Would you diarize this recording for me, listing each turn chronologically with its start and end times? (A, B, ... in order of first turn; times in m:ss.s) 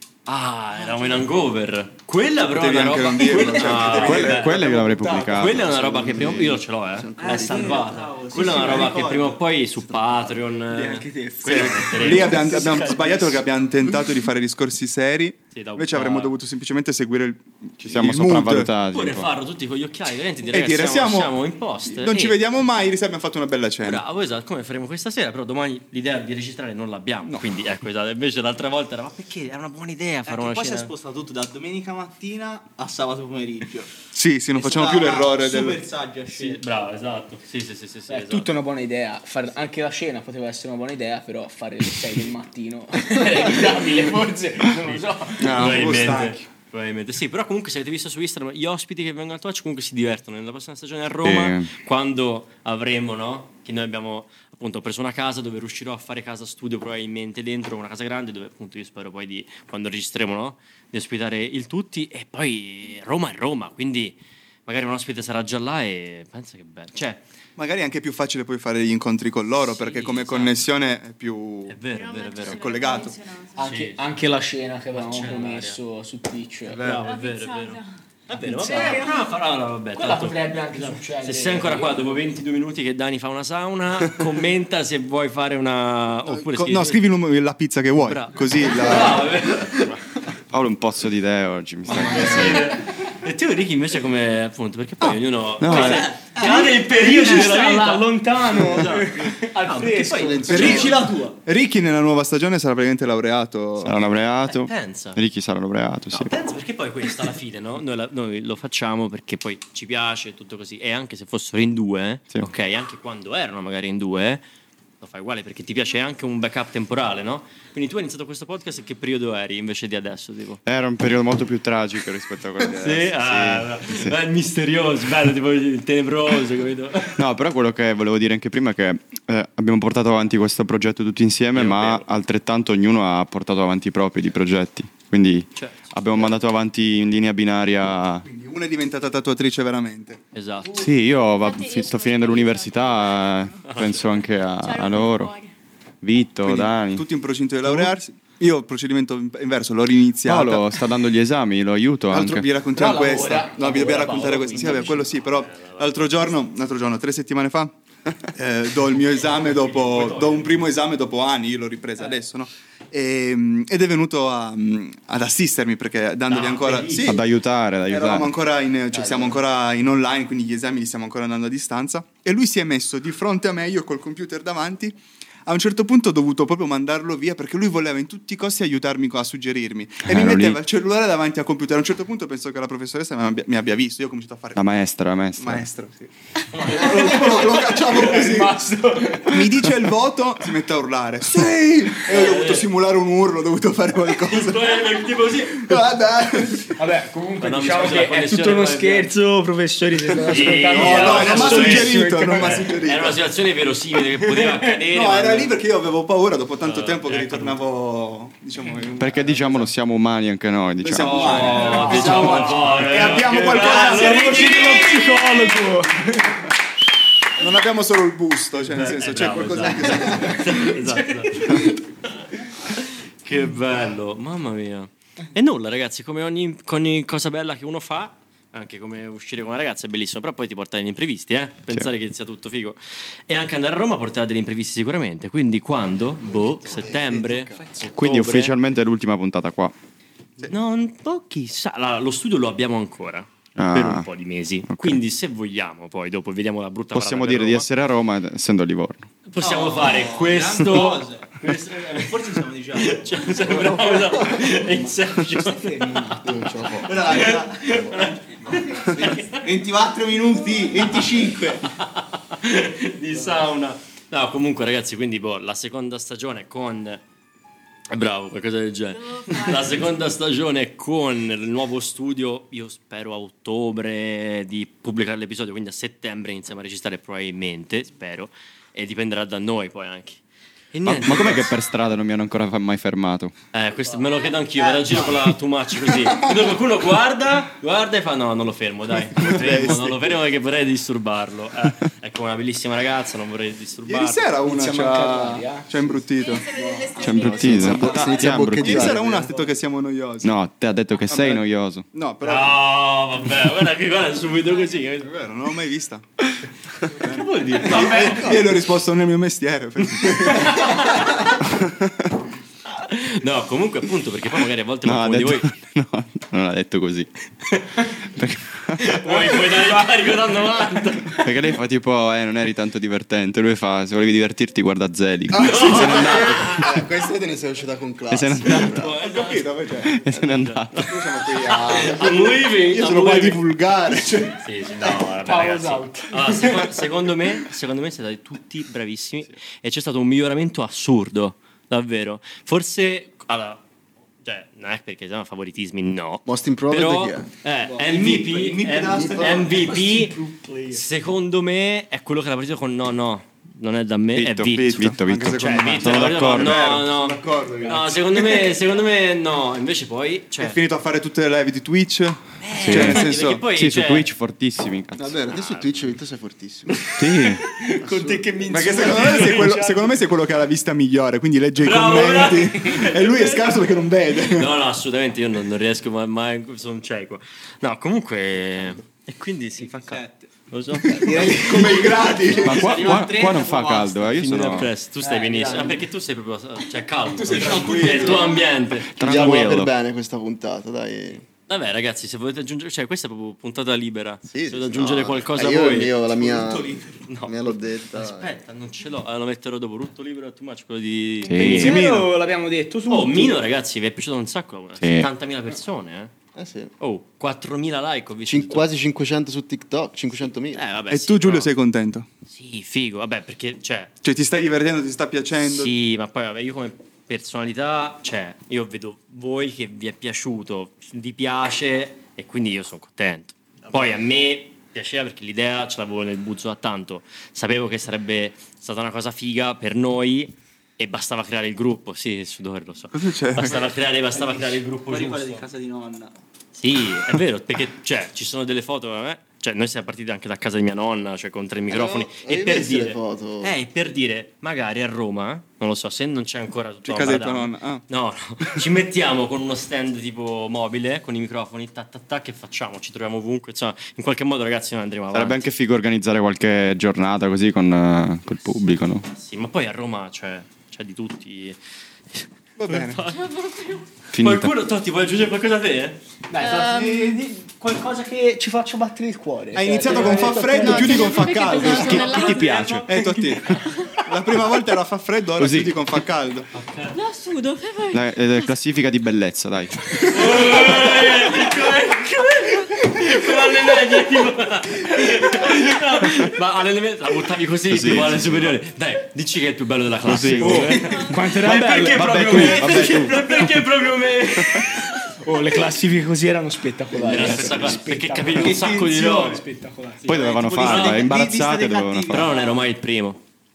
0:00.3-0:12.8 A
0:02.4-0:04.7 B
0:03.9-0:06.0 C
0:04.7-0:05.4 D
0:05.6-0:08.1 E
0:07.2-0:09.4 F
0:08.4-0:09.0 D
0:09.9-0:10.3 E
0:10.7-0:13.4 D
0:11.4-0:18.7 B
0:15.5-0:16.4 A
0:17.8-0:19.3 C
0:18.9-0:22.4 A
0:20.5-0:24.0 B
0:23.8-0:30.9 A
0:30.3-0:33.9 F
0:34.1-0:35.8 B
0:34.5-0:36.6 F
0:36.3-0:38.5 A
0:38.1-0:45.7 D
0:43.2-0:43.8 A
0:44.8-1:07.2 A
0:45.4-0:46.2 C
0:45.5-0:46.4 B
0:51.2-0:51.7 C
1:07.6-1:11.8 B
1:09.6-1:10.6 A
1:11.7-1:12.6 A
1:11.9-1:13.7 G
1:12.4-1:13.2 B
1:13.6-1:16.8 D
1:13.6-1:14.0 A
1:14.9-1:15.8 A
1:16.7-1:17.0 B
1:16.7-1:27.0 A
1:17.0-1:17.9 G
1:18.4-1:19.0 D
1:18.4-1:19.4 G
1:20.0-1:22.2 D
1:26.2-1:29.4 B
1:28.0-1:30.0 A
1:30.5-1:32.8 C
1:31.9-1:41.0 A
1:31.9-1:32.6 D
1:35.6-1:36.1 C
1:35.7-1:40.7 D
1:35.8-1:36.7 F
1:40.2-1:40.8 E
1:40.4-1:41.4 F
1:40.5-1:44.1 B
1:43.8-1:46.3 C
1:44.5-1:45.2 A
1:46.1-1:54.4 A
1:55.0-2:00.6 A
2:00.7-2:04.1 C
2:02.8-2:07.2 A
2:07.2-2:18.2 C
2:11.6-2:12.1 A
2:15.6-2:16.3 A
2:18.2-2:20.2 B
2:20.3-2:20.9 A
2:20.7-2:25.3 C
2:21.3-2:25.5 G
2:23.6-2:24.0 A
2:26.0-2:27.0 C
2:26.4-2:30.9 B
2:30.2-2:32.5 C
2:32.1-2:37.8 B
2:32.8-2:35.2 D
2:35.2-2:36.1 A
2:38.3-2:47.3 B
2:39.1-2:40.7 A
2:46.3-2:47.2 A
2:47.0-2:48.3 C
2:47.9-3:04.7 B
2:48.9-2:49.4 E
3:00.0-3:00.6 C
3:04.6-3:05.6 C
3:05.4-3:08.6 B
3:06.6-3:07.5 A
3:06.7-3:09.4 D
3:09.3-3:14.8 B
3:12.0-3:12.7 A
3:14.2-3:15.8 A
3:15.4-3:16.8 B
3:16.8-3:22.7 D
3:17.4-3:19.1 A
3:20.3-3:25.6 A
3:20.3-3:23.2 B
3:24.9-3:29.7 B
3:26.6-3:27.6 A
3:29.0-3:32.8 C
3:30.8-3:34.9 B
3:31.0-3:35.6 A
3:31.1-3:32.4 F
3:31.6-3:32.5 D
3:33.6-3:36.3 D
3:34.4-3:34.8 G
3:37.4-3:40.8 B
3:38.8-3:58.6 A
3:40.7-3:41.8 D
3:56.3-3:57.7 E
3:58.0-3:59.7 C
4:00.4-4:07.7 A
4:03.6-4:04.1 C
4:04.7-4:05.0 C
4:06.9-4:09.1 C
4:09.3-4:16.2 A
4:09.4-4:14.0 F
4:13.4-4:14.4 E
4:15.4-4:16.3 D
4:16.2-4:17.9 E
4:16.8-4:21.7 F
4:17.1-4:19.2 A
4:18.5-4:19.2 G
4:20.3-4:21.0 G
4:21.6-4:27.0 A
4:27.9-4:40.2 A
4:28.9-4:30.1 G
4:40.7-4:41.5 A
4:40.8-4:43.3 C
4:43.5-4:54.3 A
4:44.6-4:45.4 F
4:49.2-4:50.2 B
4:53.9-4:56.5 B
4:54.4-4:56.0 D
4:56.1-4:58.3 G
4:56.6-4:56.9 F
4:57.0-4:59.0 C
4:57.1-4:59.3 E
4:57.8-4:58.2 F
4:58.4-5:00.4 B
4:59.0-4:59.6 F
5:00.2-5:01.9 C
5:01.1-5:02.6 B
5:02.2-5:05.1 A
5:05.0-5:06.2 B
5:06.9-5:11.4 B
5:07.0-5:08.5 A
5:07.7-5:08.1 D
5:10.1-5:11.0 A
5:12.8-5:15.5 A
5:14.8-5:17.1 C
5:18.2-5:19.4 C
5:18.8-5:21.3 A
5:21.2-5:26.6 C
5:25.3-5:26.6 B
5:25.4-5:26.7 A
5:25.7-5:28.9 E
5:28.1-5:28.8 C
5:28.5-5:30.9 A
5:28.8-5:30.0 B
5:29.8-5:31.0 C
5:30.8-5:34.4 B
5:31.4-5:33.4 A
5:34.4-5:43.6 A
5:35.2-5:36.6 D
5:44.2-6:00.6 A
5:46.3-5:47.3 E
5:47.7-5:50.8 F
5:48.9-5:49.5 E
5:54.1-5:56.8 C
5:54.6-5:58.5 B
6:00.4-6:03.5 B
6:02.4-6:04.1 A
6:02.6-6:05.2 C
6:05.0-6:06.9 E
6:05.3-6:05.7 A
6:07.0-6:07.4 C
6:07.4-6:09.9 D
6:07.8-6:08.3 E
6:07.8-6:09.6 A
6:08.5-6:14.5 B
6:11.6-6:21.8 A
6:19.6-6:23.4 F
6:21.2-6:23.0 B
6:22.3-6:29.6 A
6:22.4-6:24.7 C
6:25.0-6:25.8 D
6:27.2-6:27.9 D
6:27.2-6:28.4 F
6:27.4-6:28.3 B
6:28.2-6:28.6 G
6:28.9-6:29.7 C
6:29.0-6:31.2 E
6:31.5-6:36.0 A
6:34.3-6:38.3 E
6:36.1-6:37.1 F
6:37.1-6:37.4 A
6:37.9-6:41.8 A
6:41.2-6:41.8 C
6:41.3-6:43.4 D
6:41.5-6:42.1 B
6:42.9-6:46.1 A
6:44.8-6:45.1 C
6:46.4-6:46.7 E
6:46.8-6:48.7 A
6:48.3-6:50.6 E
6:50.5-6:51.5 A
6:50.9-6:52.1 B
6:52.3-6:53.9 A
6:54.0-6:55.7 B
6:55.4-7:15.5 A
7:12.9-7:13.7 B
7:13.6-7:16.2 F
7:16.5-7:35.5 A
7:21.7-7:23.6 E
7:26.9-7:27.8 B
7:35.1-7:39.1 C
7:39.1-7:41.6 A
7:42.1-7:43.2 A
7:42.6-7:43.0 B
7:43.1-7:43.9 G
7:44.1-7:44.5 C
7:44.2-7:46.0 A
7:46.3-7:51.2 D
7:46.4-7:47.2 G
7:49.5-7:56.5 B
7:49.9-7:52.8 G
7:51.6-7:52.9 A
7:51.6-7:53.5 C
7:55.4-7:55.8 C
7:56.5-7:57.0 A
7:56.9-7:58.6 G
7:57.9-8:00.2 C
8:00.0-8:15.1 A
8:00.4-8:01.4 G
8:07.7-8:08.6 C
8:10.0-8:11.0 C
8:10.6-8:11.3 G
8:11.0-8:12.7 D
8:11.9-8:13.7 C
8:14.3-8:14.8 C
8:15.2-8:20.1 D
8:17.0-8:19.4 A
8:20.1-8:22.4 C
8:20.1-8:21.1 A
8:20.1-8:22.7 F
8:22.1-8:23.2 A